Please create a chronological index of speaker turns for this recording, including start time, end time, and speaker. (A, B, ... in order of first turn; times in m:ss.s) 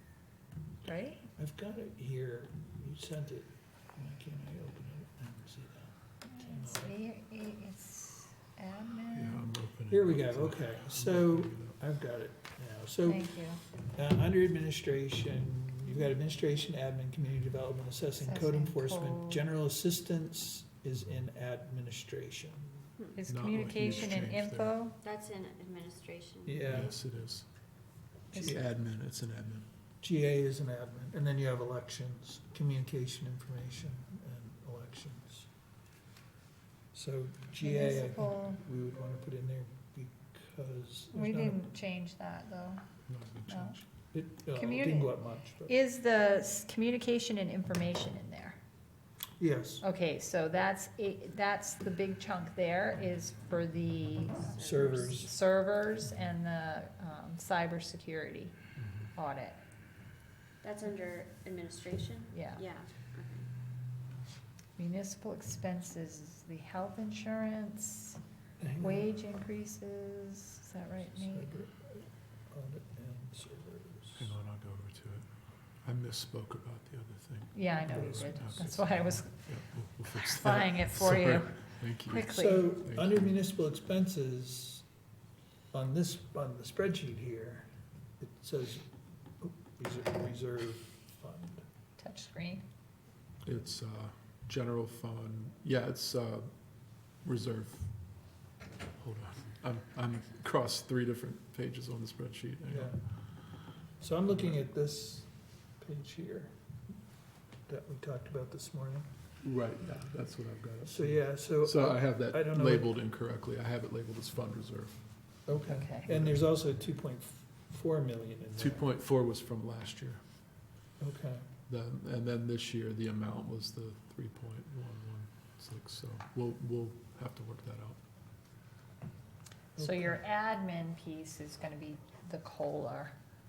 0:00.8-0:01.3 A
0:01.4-0:07.0 B
0:06.2-0:09.5 A
0:09.1-0:11.8 C
0:09.9-0:22.8 B
0:13.0-0:13.6 A
0:18.2-0:19.4 A
0:23.1-0:25.0 A
0:23.3-0:24.7 C
0:25.0-0:26.8 D
0:26.4-0:27.0 B
0:26.7-0:27.4 C
0:28.3-0:28.6 B
0:28.4-0:29.6 C
0:30.0-0:35.5 B
0:36.9-0:41.7 B
0:37.6-0:38.6 A
0:41.1-0:42.8 A
0:43.1-0:43.8 C
0:43.5-0:43.8 A
0:44.1-0:45.7 B
0:44.5-0:48.6 A
0:49.4-0:49.8 B
0:49.8-0:58.6 A
0:54.6-0:55.3 B
0:54.6-0:55.1 D
0:59.1-0:59.6 A
1:00.6-1:03.5 D
1:02.3-1:02.6 A
1:04.8-1:08.2 A
1:08.6-1:09.1 B
1:08.8-1:11.5 A
1:11.1-1:14.3 B
1:14.2-1:15.2 C
1:15.8-1:23.4 C
1:17.5-1:19.6 A
1:17.9-1:18.8 B
1:20.1-1:22.8 A
1:22.3-1:24.8 B
1:25.7-1:27.6 B
1:28.2-1:28.8 B
1:29.4-1:31.6 B
1:32.0-1:32.6 A
1:33.4-1:36.5 C
1:37.2-1:37.9 C
1:39.0-1:42.9 C
1:42.7-1:43.0 B
1:44.0-1:46.5 B
1:47.7-1:49.1 B
1:49.4-1:54.9 C
1:50.8-1:52.9 B
1:55.5-1:58.9 B
1:55.7-1:56.1 A
1:56.0-1:56.4 C
1:58.6-2:00.2 C
2:01.0-2:01.5 B
2:01.7-2:08.0 C
2:09.8-2:10.2 B
2:09.8-2:13.2 A